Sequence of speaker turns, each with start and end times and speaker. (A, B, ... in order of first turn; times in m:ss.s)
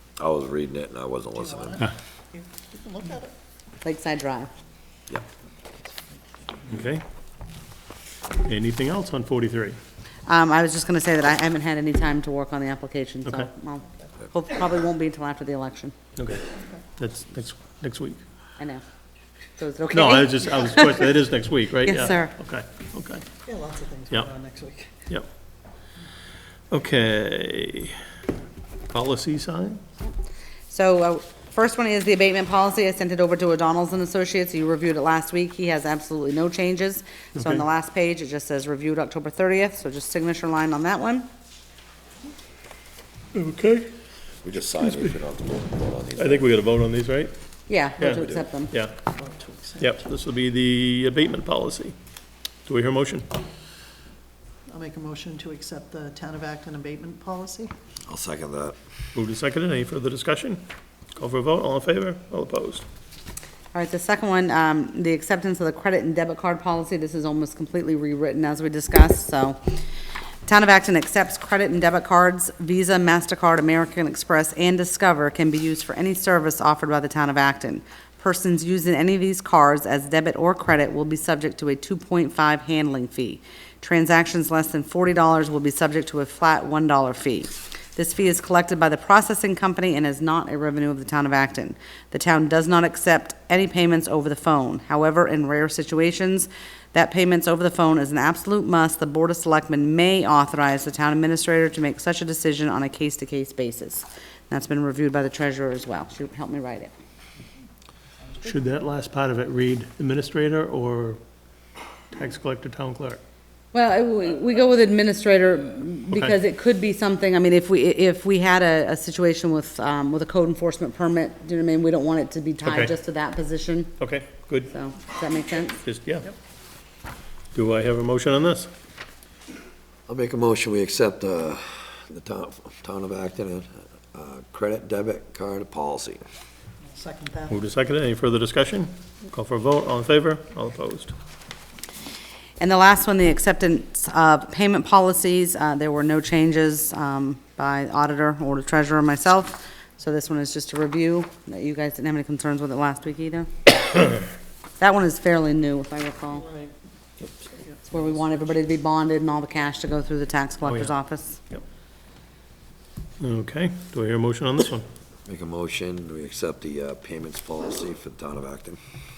0:00.2-0:01.8 A
0:01.4-0:03.3 B
0:03.8-0:04.5 C
0:06.7-0:07.0 D
0:08.4-0:09.8 D
0:10.3-0:15.9 C
0:13.2-0:13.5 D
0:16.2-0:16.4 D
0:17.0-0:18.2 D
0:18.6-0:18.8 C
0:19.6-0:21.1 C
0:19.9-0:23.3 D
0:21.8-0:22.3 C
0:23.4-0:25.0 B
0:26.7-0:28.0 D
0:28.9-0:29.8 D
0:30.7-0:41.3 C
0:37.3-0:37.6 D
0:43.3-0:43.9 D
0:44.4-0:46.4 A
0:46.2-0:47.3 D
0:47.7-0:48.7 C
0:48.0-0:49.0 D
0:48.2-0:48.5 A
0:49.1-0:50.0 B
0:49.8-0:51.9 D
0:52.6-0:53.3 D
0:54.7-0:57.7 B
0:58.1-0:58.8 A
0:59.1-1:00.6 D
1:01.1-1:02.8 D
1:03.7-1:09.6 C
1:10.4-1:46.9 C
1:48.4-1:51.2 D
1:52.1-1:53.2 D
1:53.7-2:03.9 C
1:56.1-1:56.4 D
2:02.6-2:02.9 D
2:04.0-2:04.7 D
2:04.7-2:05.8 C
2:05.8-2:06.3 D
2:07.5-2:08.7 D
2:10.1-2:16.2 A
2:16.8-2:17.6 B
2:17.5-2:21.1 D
2:22.6-2:34.2 C
2:34.8-2:36.5 C
2:36.3-2:36.8 B
2:37.6-2:38.0 B
2:37.9-2:41.4 C
2:40.6-2:40.9 D
2:43.2-2:44.8 D
2:45.2-2:48.8 A